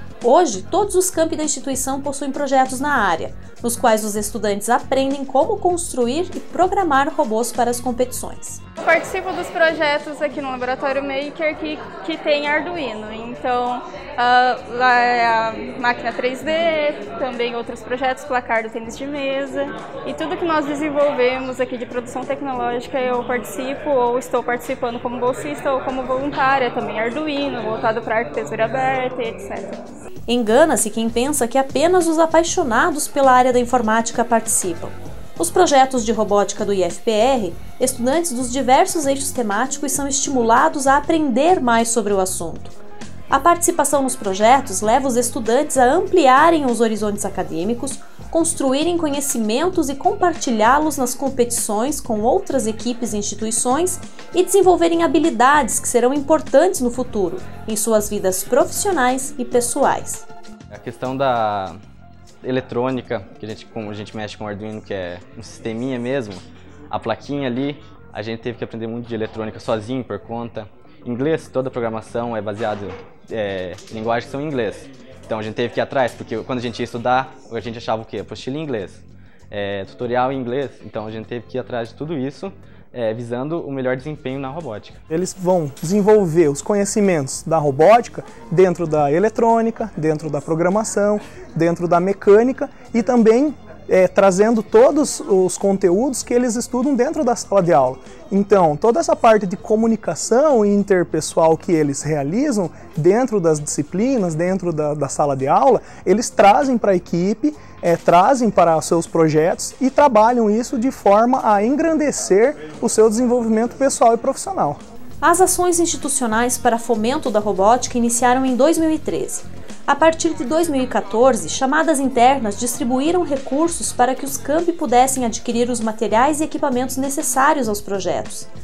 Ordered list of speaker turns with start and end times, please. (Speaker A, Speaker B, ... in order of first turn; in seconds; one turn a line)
Speaker A: 0.2-8.6
Speaker B: 8.8-29.8
Speaker A: 30.3-42.8
Speaker A: 43.3-60.2
Speaker C: 60.7-61.7
Speaker C: 62.4-85.0
Speaker D: 85.1-114.8
Speaker A: 115.2-128.5